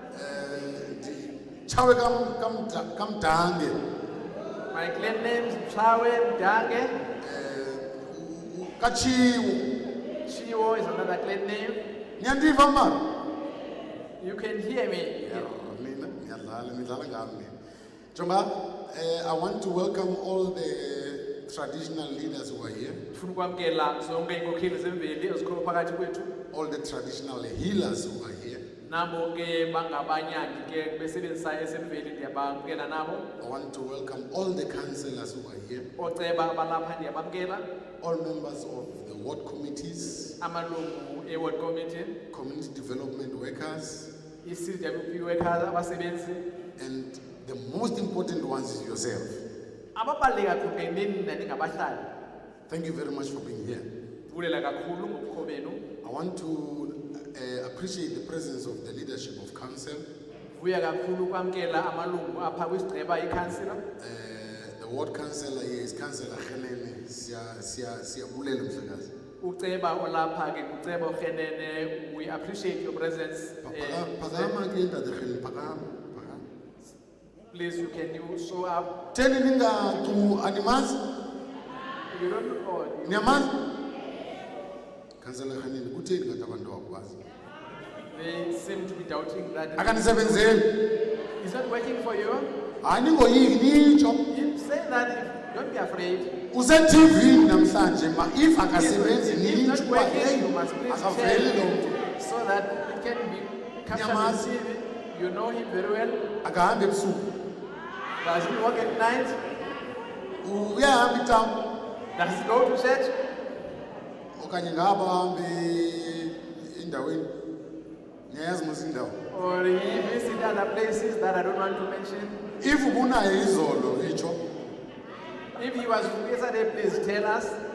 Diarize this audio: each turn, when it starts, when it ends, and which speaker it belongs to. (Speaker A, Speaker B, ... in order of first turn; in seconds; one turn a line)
Speaker A: 0.1-3.8
Speaker B: 4.7-7.0
Speaker A: 7.2-9.7
Speaker B: 10.3-11.8
Speaker A: 12.2-13.0
Speaker B: 14.2-15.5
Speaker A: 15.2-17.5
Speaker A: 18.1-23.0
Speaker B: 23.1-26.3
Speaker A: 26.5-28.6
Speaker B: 28.8-33.2
Speaker A: 33.4-35.9
Speaker B: 36.0-37.6
Speaker A: 38.0-40.3
Speaker B: 40.4-42.1
Speaker A: 42.3-44.1
Speaker B: 44.4-46.4
Speaker A: 46.8-49.4
Speaker B: 49.9-52.0
Speaker A: 52.7-53.8
Speaker B: 54.3-55.8
Speaker A: 56.0-60.0
Speaker B: 60.5-63.8
Speaker A: 64.0-69.1
Speaker B: 69.4-74.5
Speaker A: 73.6-76.4
Speaker B: 77.5-78.9
Speaker A: 79.1-81.0
Speaker B: 82.1-83.5
Speaker A: 83.0-83.5
Speaker A: 85.2-87.2
Speaker B: 88.1-90.6
Speaker A: 89.8-90.7
Speaker B: 91.4-92.5
Speaker A: 92.8-94.2
Speaker B: 94.3-96.3
Speaker A: 96.5-102.0
Speaker B: 98.7-106.3
Speaker A: 103.9-104.5
Speaker A: 106.4-107.3
Speaker B: 108.2-109.4
Speaker A: 110.4-111.5
Speaker B: 112.2-113.1
Speaker A: 114.3-117.3
Speaker A: 118.3-119.2
Speaker B: 119.3-122.4
Speaker A: 122.6-124.4
Speaker B: 125.5-127.6